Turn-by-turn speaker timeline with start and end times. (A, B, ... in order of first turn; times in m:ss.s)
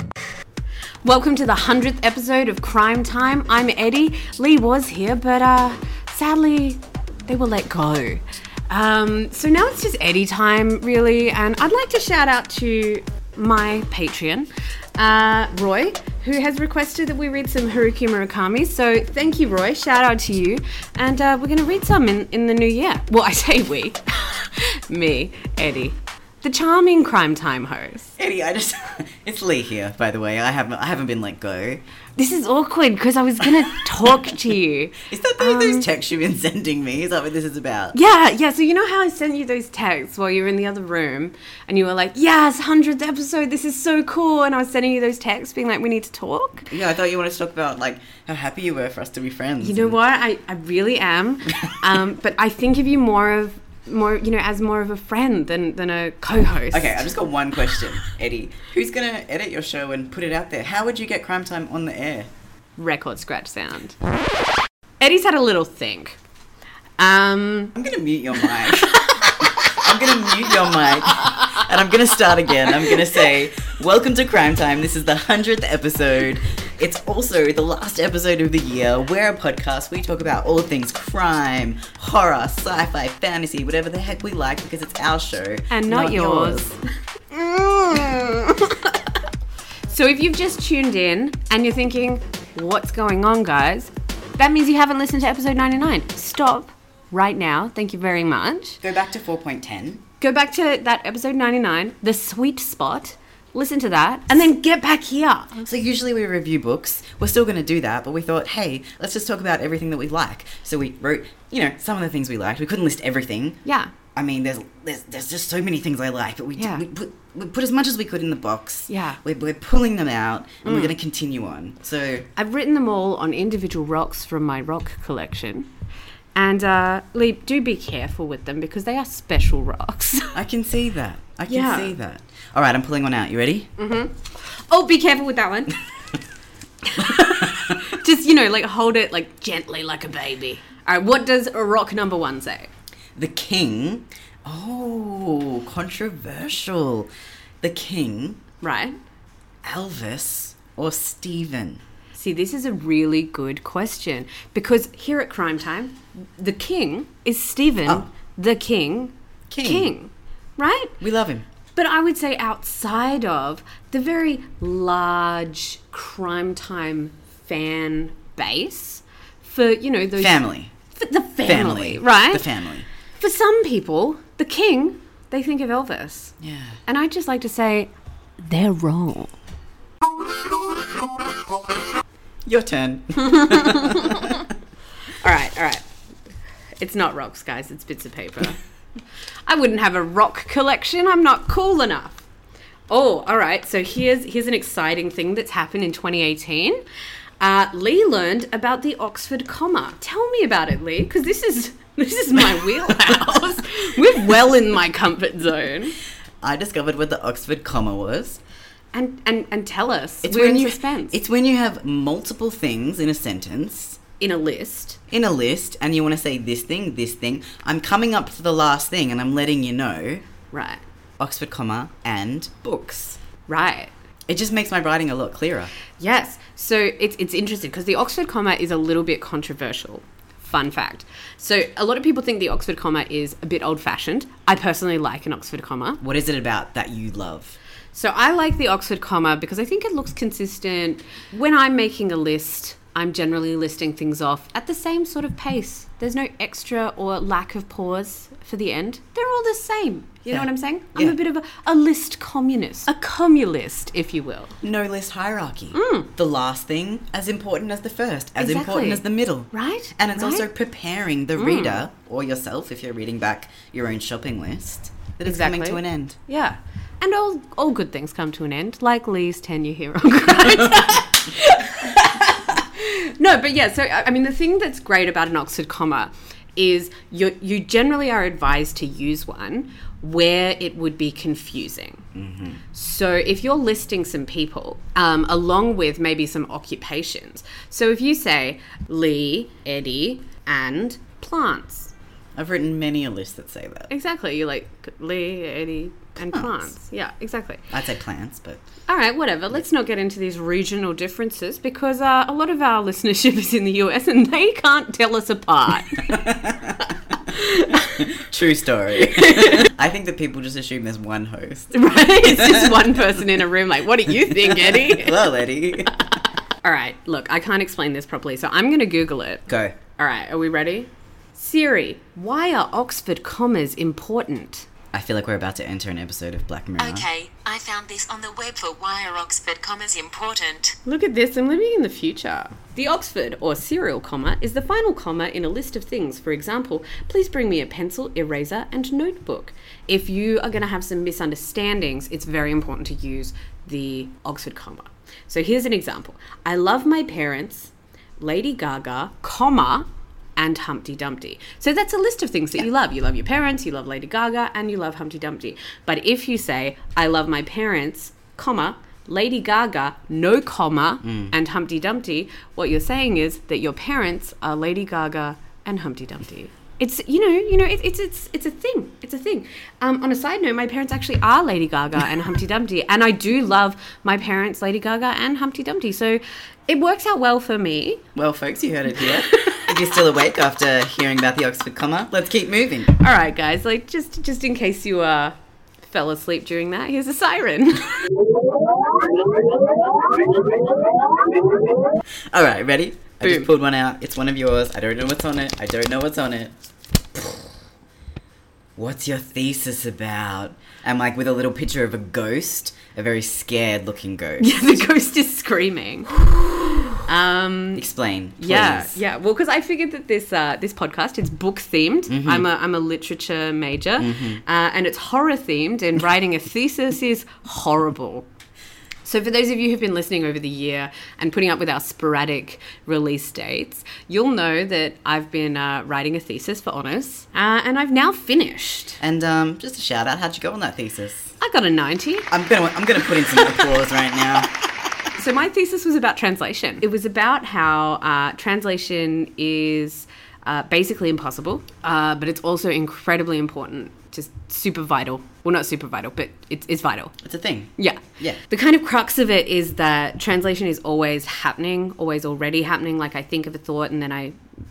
0:01.0-0:28.1 A
0:28.2-0:31.8 B
0:32.2-0:35.9 A
0:35.0-0:38.0 B
0:37.9-0:46.7 A
0:46.7-0:50.0 B
0:49.6-0:57.1 A
0:56.7-1:02.3 B
1:02.8-1:04.0 A
1:05.0-1:06.2 A
1:07.0-1:07.8 A
1:07.7-1:26.7 B
1:08.7-1:09.8 A
1:25.7-1:26.8 A
1:27.3-1:29.2 A
1:29.9-1:38.8 A
1:38.8-1:40.0 B
1:40.2-1:45.6 A
1:45.6-1:53.6 B
1:53.6-1:53.9 A
1:54.2-2:02.3 B
1:56.6-1:56.8 A
1:58.9-1:59.2 A
2:00.6-2:01.0 A
2:02.4-2:05.7 A
2:06.4-2:10.4 A
2:10.3-2:13.7 B
2:11.5-2:12.0 A
2:13.8-2:15.8 A
2:16.8-2:22.7 A
2:17.2-2:17.8 B
2:23.2-2:27.1 B
2:27.6-2:28.4 B
2:28.6-2:29.0 A
2:29.6-2:31.8 B
2:32.2-2:41.0 A
2:39.5-2:39.9 B
2:41.0-2:41.5 B
2:41.8-2:52.5 A
2:50.2-2:50.7 B
2:51.4-2:52.9 B
2:53.2-2:56.3 A
2:56.4-2:56.8 B
2:56.9-2:59.3 A
3:02.4-3:04.4 B
3:03.2-3:04.4 A
3:05.2-3:05.8 A
3:06.8-3:08.6 A
3:09.5-3:12.2 A
3:12.9-3:16.8 A
3:17.4-3:26.0 A
3:26.4-3:28.4 B
3:28.9-3:31.2 A
3:30.2-3:34.0 B
3:34.2-3:35.0 A
3:35.1-3:40.2 B
3:40.5-3:40.8 A
3:41.2-3:43.2 B
3:43.5-3:43.9 A
3:44.3-3:45.7 B
3:46.0-3:56.0 A
3:56.0-3:57.6 B
3:57.9-4:14.6 A
4:10.3-4:11.2 B
4:14.6-4:26.2 B
4:15.7-4:16.1 A
4:18.4-4:20.5 A
4:21.4-4:21.8 A
4:25.2-4:42.0 A
4:42.1-4:42.6 B
4:42.7-4:51.9 A
4:52.4-4:53.9 B
4:53.9-4:57.6 A
4:56.2-4:56.7 B
4:57.7-4:58.6 B
4:58.9-5:06.2 A
5:06.0-5:06.9 B
5:07.3-5:08.1 A
5:08.0-5:13.1 B
5:09.1-5:09.7 A
5:11.7-5:15.3 A
5:14.2-5:16.0 B
5:16.6-5:24.7 A
5:19.5-5:19.8 B
5:24.9-5:27.1 B
5:26.8-5:30.8 C
5:30.8-6:18.0 A
6:01.0-6:01.3 B
6:18.2-6:23.0 B
6:19.3-6:19.7 A
6:23.0-6:28.2 A
6:32.3-6:36.5 B
6:33.2-6:33.5 A
6:38.8-6:44.8 B
6:44.4-6:46.2 A
6:47.0-6:47.8 A
6:47.8-6:49.0 B
6:48.4-6:58.3 A
6:52.1-6:52.5 B
6:54.0-6:54.4 B
6:59.0-7:09.0 A
7:09.0-7:11.3 B
7:11.4-7:12.3 A
7:12.3-7:14.5 B
7:15.2-7:27.1 A
7:27.2-7:28.4 B
7:27.8-7:34.4 A